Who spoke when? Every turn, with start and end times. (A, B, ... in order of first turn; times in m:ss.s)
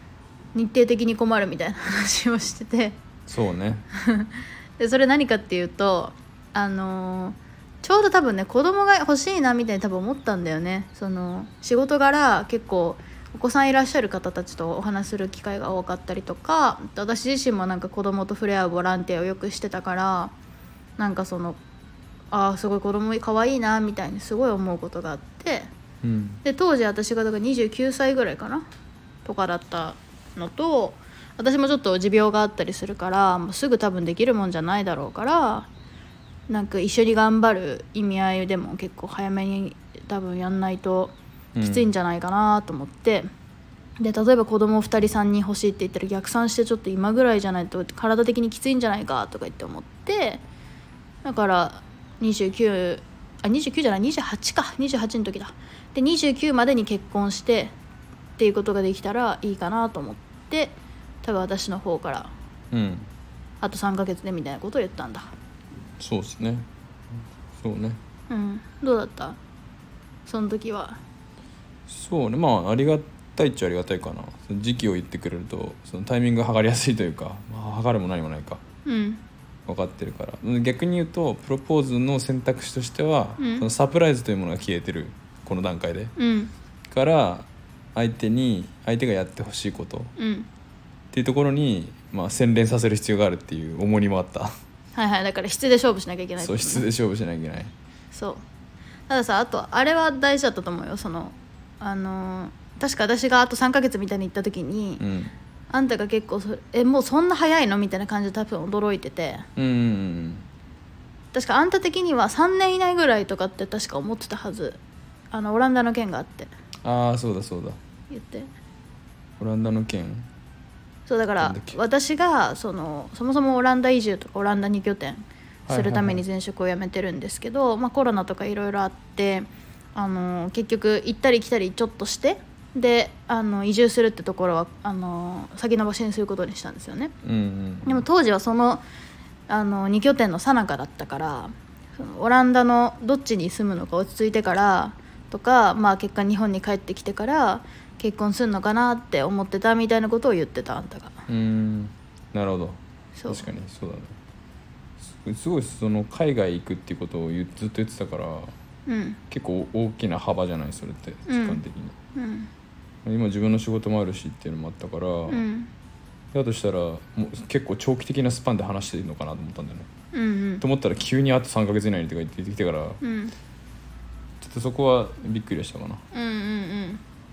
0:00.6-0:03.0 A
0:03.3-0:03.9 B
0:04.0-0:20.3 A
0:21.0-0:21.6 A
0:22.3-0:25.7 A
0:26.0-0:26.4 B
0:26.4-0:28.6 A
0:29.2-0:35.7 A
0:36.5-0:43.3 A
0:41.6-0:41.9 B
0:44.0-0:50.4 A
0:51.2-0:57.7 A
0:58.4-1:02.3 A
1:02.7-1:03.1 B
1:03.6-1:05.3 A
1:06.0-1:06.7 B
1:07.6-1:08.0 B
1:08.3-1:09.4 A
1:10.3-1:11.0 A
1:11.9-1:18.6 B
1:18.8-1:19.2 A
1:19.7-1:26.1 B
1:23.4-1:23.7 A
1:26.2-1:26.5 A
1:26.9-1:30.1 B
1:30.2-1:30.5 A
1:31.1-1:34.5 B
1:35.0-1:36.9 A
1:36.4-1:37.7 B
1:38.1-1:38.4 A
1:39.1-1:45.0 A
1:45.0-1:45.3 B
1:45.7-1:49.4 A
1:49.6-1:50.4 B
1:51.3-1:54.8 A
1:55.3-1:56.5 A
1:56.8-1:57.8 B
1:58.1-1:58.5 A
1:59.4-2:00.3 B
2:01.1-2:17.1 A
2:01.4-2:01.8 B
2:05.7-2:06.2 B
2:17.2-2:18.1 B
2:17.9-2:18.8 A
2:19.5-2:31.2 A
2:31.3-2:34.1 B
2:33.2-2:33.5 A
2:35.0-2:38.5 B
2:38.9-2:39.2 A
2:39.3-2:42.0 B
2:41.3-2:41.6 A
2:42.2-2:42.5 A
2:43.0-2:45.4 B
2:45.3-2:45.7 A
2:46.3-2:49.9 B
2:50.1-2:50.6 A
2:50.6-2:53.0 B
2:53.0-2:53.3 A
2:54.4-2:56.0 B
2:56.1-2:57.0 A